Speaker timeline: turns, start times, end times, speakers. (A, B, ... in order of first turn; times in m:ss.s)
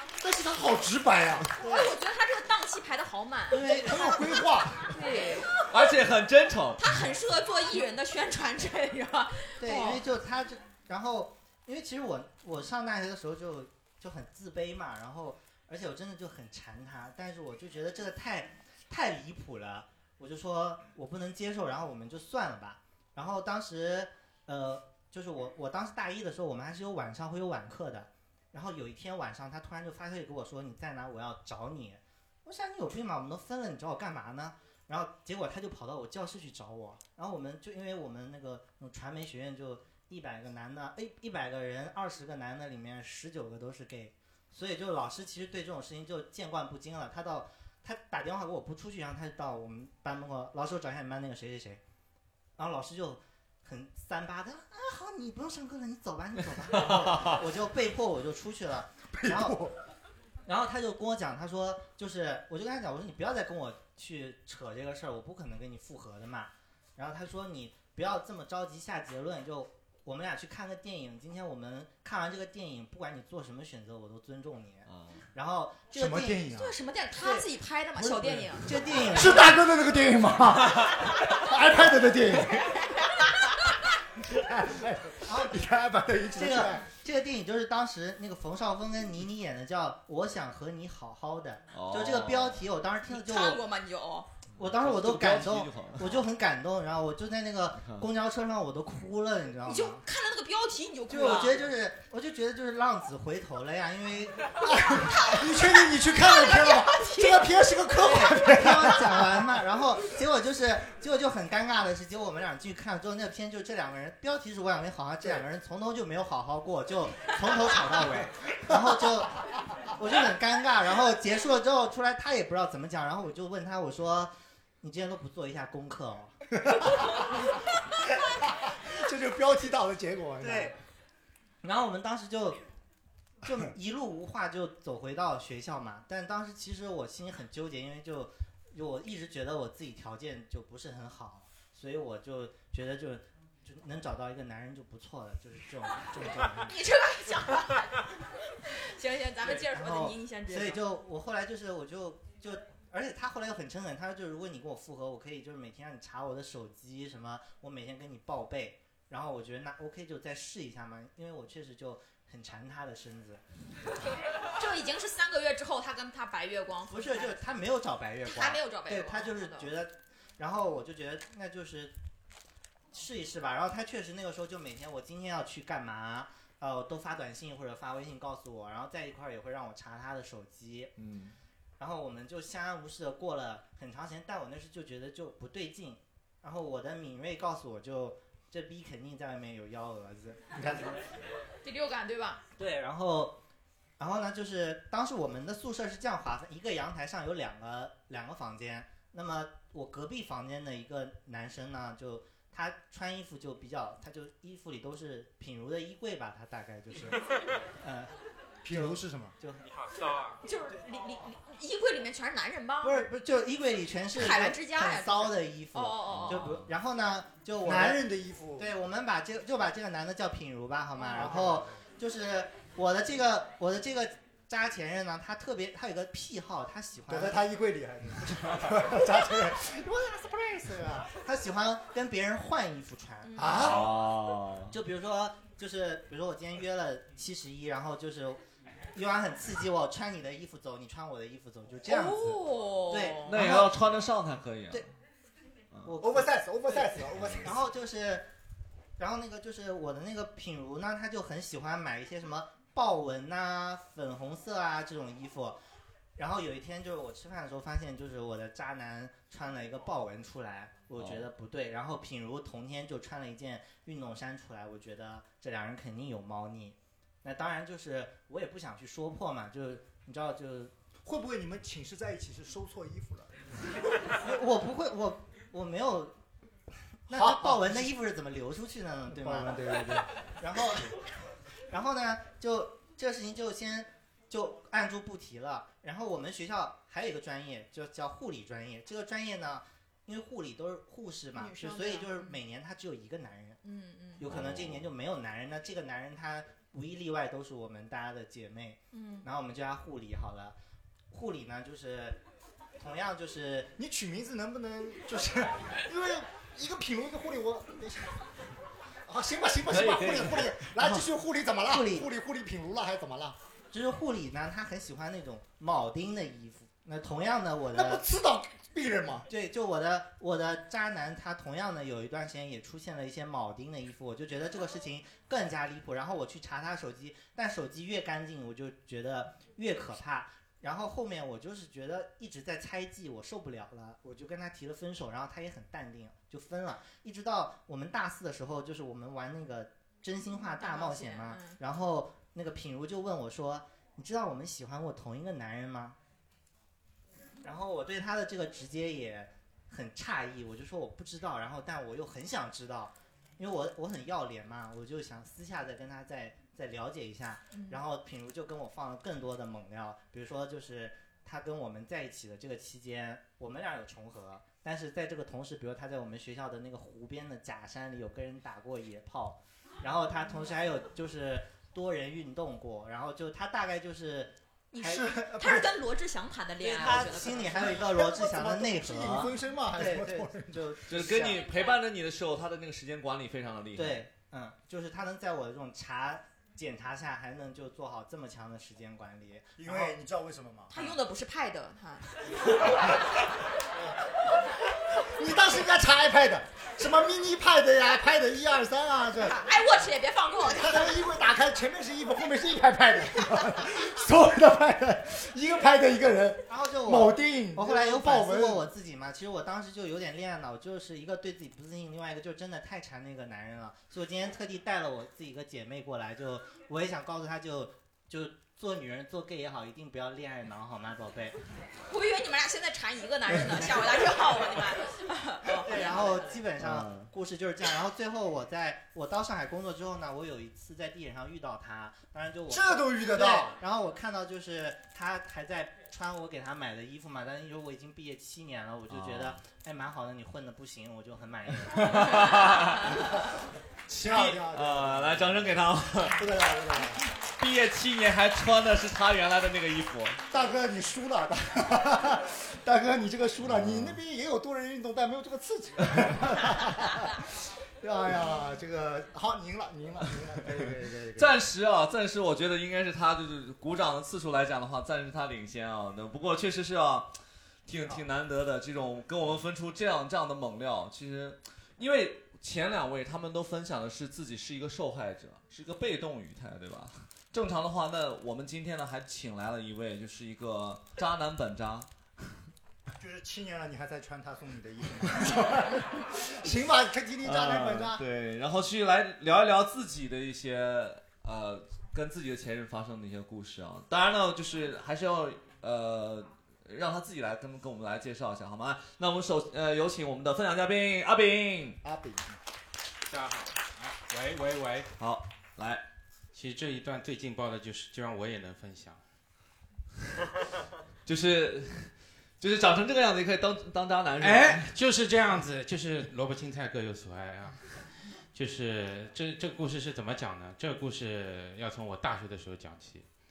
0:00.2-0:01.6 A
0:01.6-0:05.5 B
0:01.6-0:01.9 C
0:03.5-0:04.3 C
0:03.7-0:05.0 A
0:05.7-0:06.8 D
0:06.8-0:10.0 B
0:09.6-0:51.8 C
0:52.6-0:59.6 C
0:59.1-0:59.8 A
1:00.5-1:16.4 C
1:14.9-1:15.2 D
1:15.9-1:16.7 A
1:16.5-1:18.7 B
1:17.2-1:19.6 C
1:19.1-1:22.8 A
1:24.3-1:26.9 A
1:25.2-1:25.6 C
1:26.3-1:33.6 C
1:31.7-1:32.6 D
1:33.1-1:34.3 B
1:34.6-1:40.0 C
1:34.6-1:36.2 D
1:39.7-1:41.6 B
1:41.1-1:44.5 C
1:44.6-1:49.5 A
1:45.1-1:45.5 B
1:46.0-1:47.5 B
1:48.0-1:59.4 C
2:00.0-2:06.4 C
2:06.6-2:07.2 A
2:08.2-2:10.8 A
2:10.4-2:10.7 C
2:11.6-2:12.6 C
2:13.4-2:26.8 C
2:26.6-2:27.8 B
2:29.0-2:30.8 B
2:29.4-2:43.4 C
2:44.6-2:47.4 B
2:46.9-2:51.9 C
2:48.2-2:49.7 B
2:52.9-3:00.9 C
3:01.0-3:01.3 D
3:01.8-3:11.0 C
3:11.6-3:12.4 B
3:12.6-3:13.4 C
3:14.0-3:27.3 C
3:27.8-3:28.1 C
3:28.6-3:29.3 A
3:28.7-3:29.9 C
3:30.4-3:33.1 B
3:32.8-3:38.0 C
3:34.2-3:36.5 B
3:37.6-3:38.7 A
3:38.6-3:47.4 C
3:41.1-3:41.7 A
3:47.1-3:51.2 A
3:51.2-3:53.7 C
3:53.2-3:53.8 B
3:53.4-3:53.9 A
3:53.6-3:54.8 D
3:54.7-3:58.4 C
3:58.9-4:03.8 C
4:01.9-4:03.4 B
4:03.3-4:04.9 D
4:05.8-4:08.3 C
4:06.0-4:07.6 A
4:07.2-4:07.4 D
4:09.0-4:15.6 C
4:16.2-4:30.7 C
4:21.0-4:21.2 D
4:31.0-4:33.4 A
4:34.2-4:36.1 C
4:37.1-4:41.0 C
4:37.1-4:37.9 A
4:39.1-4:40.1 A
4:41.7-4:53.6 C
4:51.4-4:52.4 B
4:53.6-4:54.2 B
4:54.2-5:00.6 C
4:54.3-4:54.8 D
4:58.9-4:59.3 B
5:01.1-5:02.2 C
5:02.8-5:03.7 C
5:03.8-5:08.2 A
5:09.1-5:13.4 A
5:09.7-5:10.6 D
5:11.7-5:12.1 C
5:13.7-5:18.0 C
5:17.7-5:19.3 A
5:19.3-5:46.0 C
5:40.6-5:41.6 B
5:47.4-6:15.1 C
5:57.5-5:57.8 B
6:14.7-6:17.8 B
6:14.8-6:15.7 A
6:16.6-6:21.4 C
6:16.8-6:20.8 A
6:20.9-6:24.1 D
6:23.7-6:29.9 C
6:29.6-6:30.8 A
6:30.7-6:32.0 B
6:35.0-6:39.4 A
6:39.2-6:41.0 B
6:40.4-6:48.7 A
6:46.5-7:01.4 C
7:01.9-7:06.4 B
7:05.6-7:22.1 C
7:12.5-7:13.6 A
7:18.9-7:19.4 D
7:21.7-7:23.0 D
7:23.9-7:27.0 A
7:23.9-7:26.2 D
7:27.4-7:30.2 D
7:30.3-7:37.2 A
7:33.4-7:34.0 D
7:37.8-7:41.4 A
7:41.2-7:47.2 D
7:47.7-8:01.9 D
8:03.0-8:08.0 A
8:07.2-8:21.8 D
8:21.8-8:22.4 A
8:23.1-8:24.9 E
8:25.0-8:25.8 D
8:26.3-8:29.0 E
8:31.0-8:34.7 D
8:34.2-8:37.6 E
8:38.3-8:43.1 E